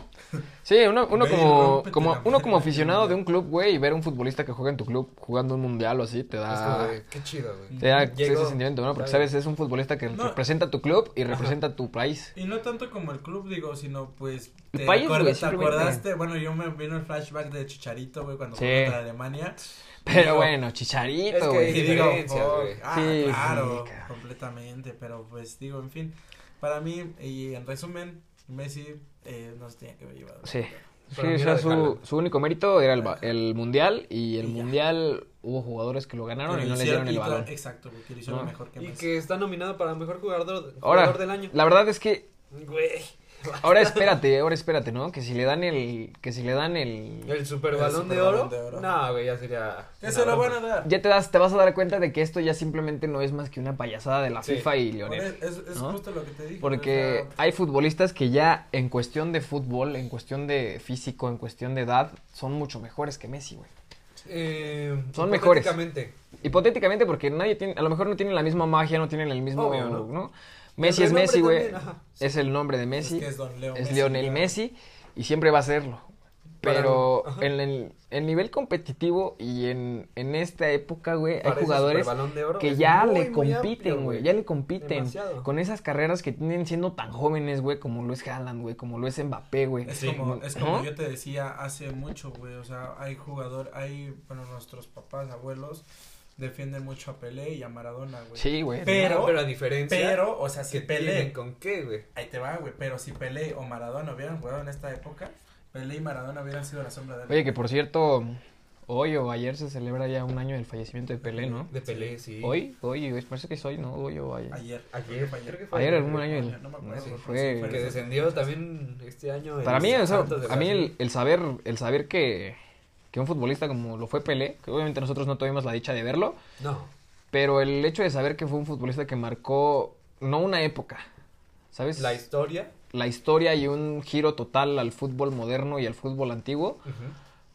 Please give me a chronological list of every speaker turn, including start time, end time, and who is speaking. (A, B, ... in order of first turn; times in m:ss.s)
0:00.6-0:07.0 A
0:01.1-0:03.2 B
0:06.5-0:09.3 C
0:07.7-0:08.1 B
0:07.8-0:12.3 A
0:10.1-0:10.4 B
0:12.3-0:20.5 B
0:14.7-0:16.0 A
0:18.6-0:19.0 A
0:20.0-0:22.0 A
0:21.3-0:22.8 C
0:21.6-0:30.8 B
0:22.9-0:24.0 A
0:30.4-0:37.5 A
0:31.1-0:32.0 C
0:33.0-0:33.3 B
0:34.4-0:34.7 B
0:36.4-0:39.1 B
0:38.3-0:38.5 A
0:38.8-0:41.5 C
0:40.8-0:42.3 A
0:42.5-0:44.2 C
0:43.6-0:47.4 A
0:47.2-0:50.6 C
0:47.7-0:49.0 B
0:50.0-0:50.9 B
0:50.8-0:56.0 A
0:54.4-0:54.7 C
0:55.0-0:57.4 B
0:56.6-1:03.7 A
1:04.2-1:06.2 C
1:05.1-1:05.8 A
1:06.4-1:16.0 A
1:09.5-1:10.1 C
1:10.8-1:12.2 C
1:13.0-1:14.6 B
1:16.6-1:30.9 A
1:16.6-1:17.5 C
1:21.4-1:25.5 C
1:29.8-1:35.8 B
1:29.9-1:30.2 C
1:36.4-1:41.4 B
1:38.4-1:39.2 A
1:38.9-1:42.1 C
1:42.1-1:47.6 B
1:47.3-1:51.7 A
1:51.2-1:52.2 B
1:51.7-1:52.6 C
1:52.4-1:54.6 A
1:54.5-1:58.5 B
1:54.9-1:56.4 C
1:55.7-1:58.0 A
1:57.0-2:00.9 C
1:59.6-2:02.6 A
2:03.1-2:06.4 A
2:06.6-2:06.9 C
2:07.3-2:11.0 A
2:11.7-2:12.2 A
2:11.9-2:12.7 C
2:12.9-2:16.8 A
2:16.8-2:17.2 C